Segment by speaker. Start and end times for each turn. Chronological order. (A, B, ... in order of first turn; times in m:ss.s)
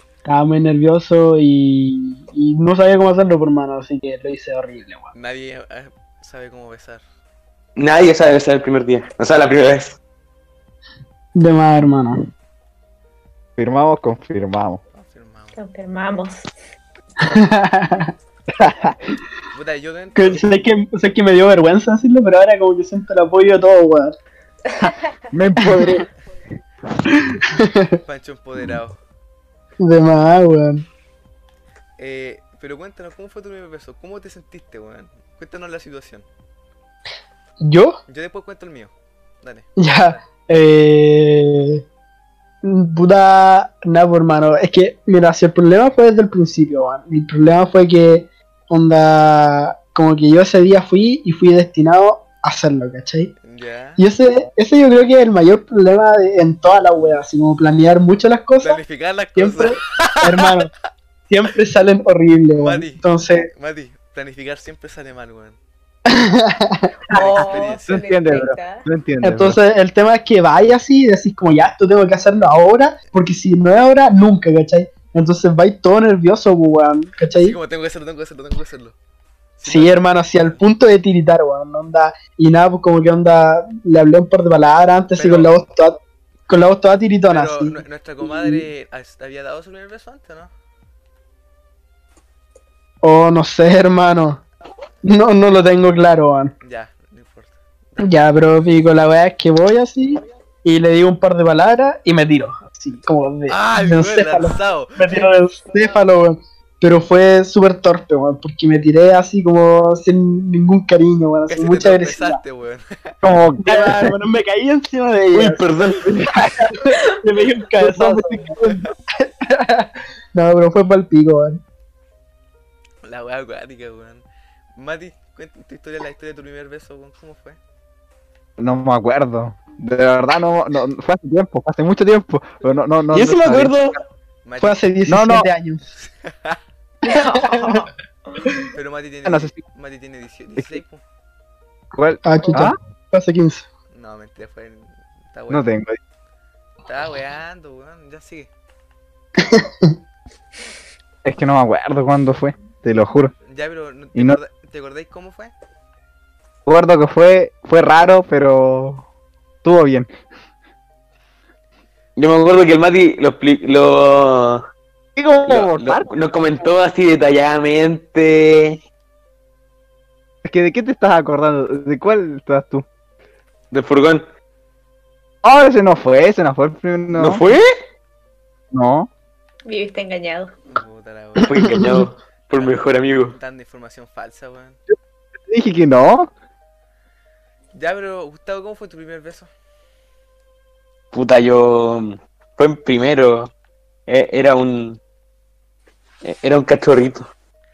0:00.2-0:05.1 A
0:05.1-0:07.0 B
0:07.8-0:10.0 C
0:11.3-0:12.2 A
0:13.6-0:14.8 D
0:14.9-0:15.6 B
0:15.5-0:16.5 E
0:17.2-0:18.1 A
0:18.5-0:18.9 D
0:19.5-0:20.6 B
0:20.2-0:24.2 A
0:25.3-0:26.1 D
0:25.6-0:26.0 A
0:27.1-0:28.0 A
0:28.0-0:29.0 B
0:29.8-0:30.8 A
0:32.0-0:36.3 B
0:37.6-0:38.0 A
0:38.1-0:40.2 B
0:39.8-0:41.8 A
0:42.6-0:53.3 A
0:53.4-0:54.0 B
0:54.0-0:58.8 A
0:58.6-1:00.5 B
0:59.4-1:00.7 A
1:01.3-1:03.5 A
1:02.6-1:05.6 B
1:06.1-1:06.9 A
1:07.1-1:08.0 B
1:07.1-1:09.6 D
1:07.1-1:08.9 E
1:09.2-1:17.6 A
1:17.3-1:19.0 B
1:19.6-1:20.6 B
1:19.6-1:28.6 A
1:25.1-1:25.5 B
1:27.3-1:30.5 B
1:33.0-1:34.4 A
1:35.0-1:36.5 A
1:36.6-1:38.8 B
1:38.0-1:52.4 A
1:43.5-1:45.3 B
1:51.5-1:53.2 B
1:53.2-1:54.1 D
1:53.6-1:55.7 A
1:55.3-1:56.2 C
1:56.0-1:56.9 D
1:56.7-2:01.6 A
1:57.8-1:58.9 D
2:03.0-2:04.2 B
2:04.8-2:07.6 B
2:08.6-2:13.8 D
2:13.1-2:14.0 C
2:14.4-2:14.8 B
2:14.6-2:15.8 A
2:15.1-2:15.5 D
2:15.9-2:16.6 B
2:17.0-2:17.8 A
2:17.0-2:17.9 E
2:18.7-2:21.0 B
2:19.2-2:19.6 D
2:21.9-2:22.8 D
2:22.2-2:23.7 A
2:23.9-2:25.7 B
2:25.5-2:26.0 D
2:26.8-2:28.5 B
2:29.4-2:29.9 A
2:31.2-2:33.3 D
2:33.4-2:35.5 B
2:36.6-2:39.0 D
2:39.6-2:40.1 D
2:42.2-2:44.6 C
2:45.2-2:46.1 D
2:45.5-2:48.8 C
2:50.4-2:52.8 D
2:53.7-2:54.3 C
2:55.4-2:57.4 D
2:57.1-2:57.7 C
2:58.7-2:59.1 D
2:59.6-3:00.5 E
3:00.7-3:01.8 B
3:01.4-3:03.3 C
3:02.5-3:04.8 B
3:05.5-3:06.3 D
3:07.7-3:09.5 B
3:11.1-3:13.5 C
3:14.1-3:15.0 C
3:16.2-3:17.3 C